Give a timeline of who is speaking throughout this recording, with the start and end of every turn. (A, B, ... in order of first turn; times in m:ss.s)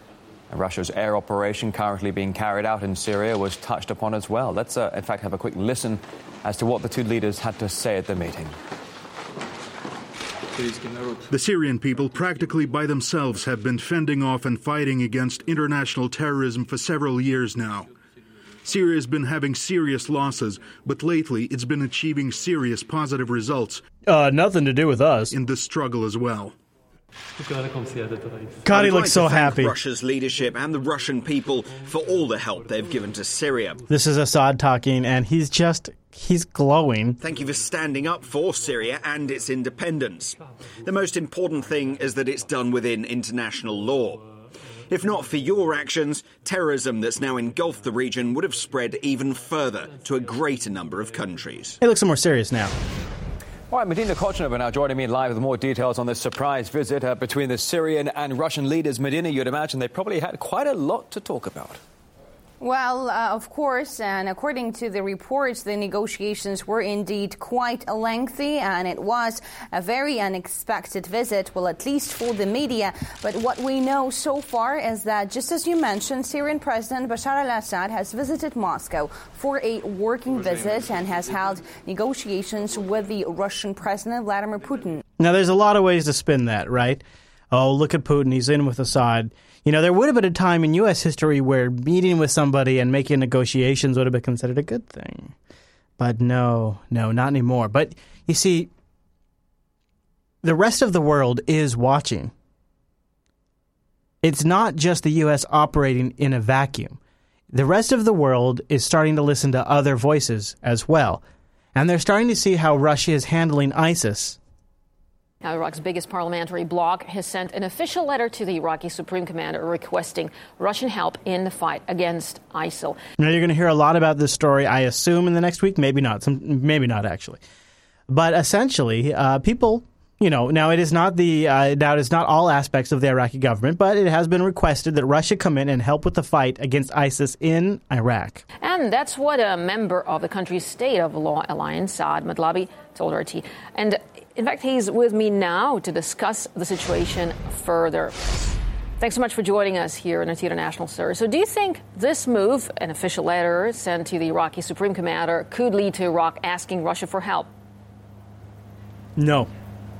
0:00.5-0:08.6 A
0:11.3-0:17.9 B
0:18.6-0:23.8 B
0:24.1-0:25.3 C
0:25.3-0:26.5 B
0:28.6-0:29.7 C
0:28.7-0:33.8 D
0:33.9-0:37.2 C
0:37.2-0:40.3 D
0:40.9-0:44.2 D
0:44.9-0:51.8 D
0:51.8-0:52.7 C
0:53.7-1:01.8 A
1:02.6-1:25.0 E
1:25.2-1:35.3 C
1:36.0-1:38.7 C
1:40.4-1:42.3 C
1:44.2-1:47.0 C
1:47.5-1:51.2 C
1:51.7-1:54.4 C
1:55.4-2:03.0 F
2:03.2-2:07.4 C
2:08.1-2:18.4 C
2:18.6-2:28.4 F
2:29.0-2:37.5 F
2:39.2-2:39.5 C